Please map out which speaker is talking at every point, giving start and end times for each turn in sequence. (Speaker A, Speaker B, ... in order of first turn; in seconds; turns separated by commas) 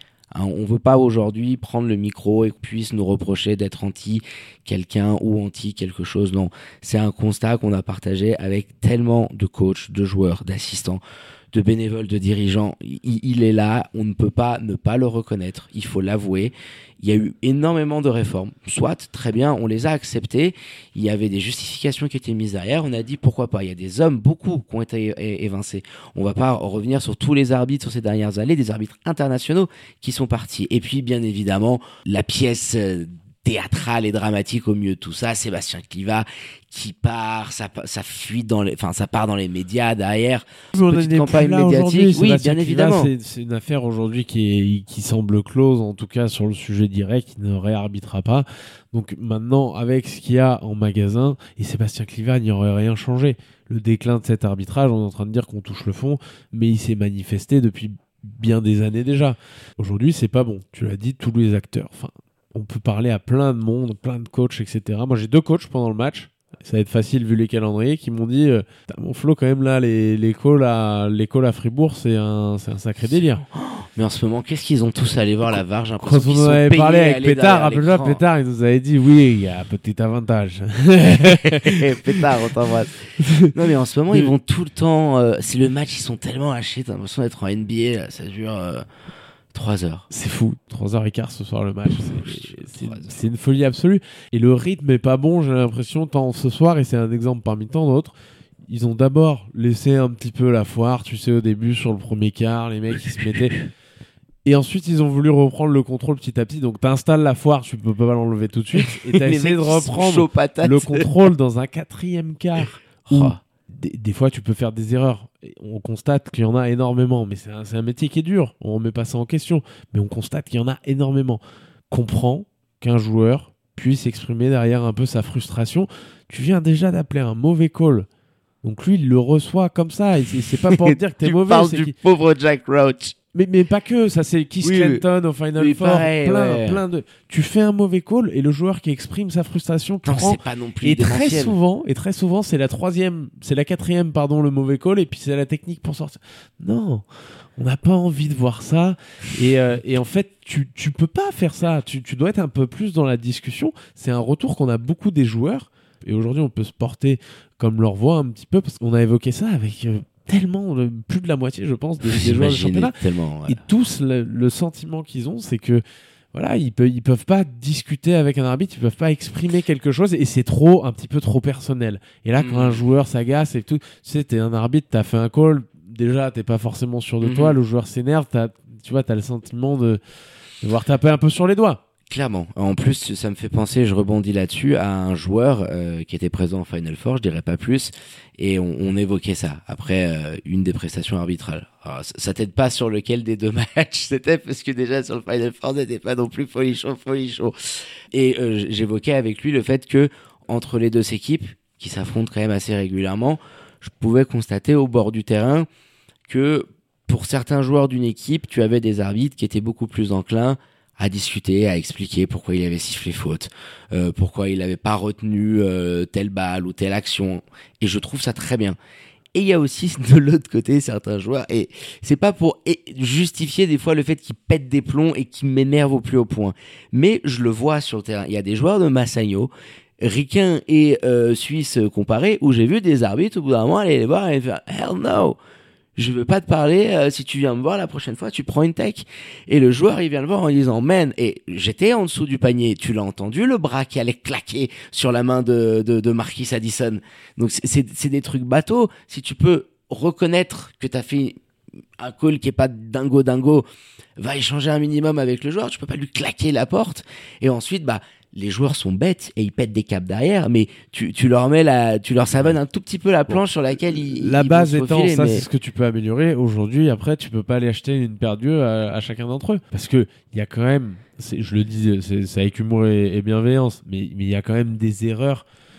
Speaker A: 0.3-43.1, Speaker B: 40.7-73.4, Speaker A: 73.4-78.2, Speaker B: 76.0-82.3, Speaker A: 81.2-88.8, Speaker B: 83.2-83.5, Speaker A: 89.5-90.1, Speaker B: 90.1-98.1, Speaker A: 92.0-93.2, Speaker B: 98.7-103.6, Speaker B: 104.4-128.1, Speaker A: 108.8-111.1, Speaker A: 113.0-113.4, Speaker B: 128.6-131.9, Speaker A: 130.6-133.2, Speaker B: 133.3-147.0, Speaker A: 134.6-135.0, Speaker A: 135.6-136.8, Speaker A: 140.0-141.6, Speaker B: 147.6-162.9, Speaker A: 162.0-163.6, Speaker B: 163.5-165.8, Speaker B: 166.3-180.0, Speaker A: 172.4-172.8, Speaker A: 177.2-177.6, Speaker B: 180.6-181.8, Speaker A: 182.1-205.7, Speaker A: 206.3-218.8, Speaker A: 219.3-235.4, Speaker A: 235.9-251.4, Speaker A: 252.0-253.6, Speaker A: 254.2-265.5, Speaker B: 263.9-275.4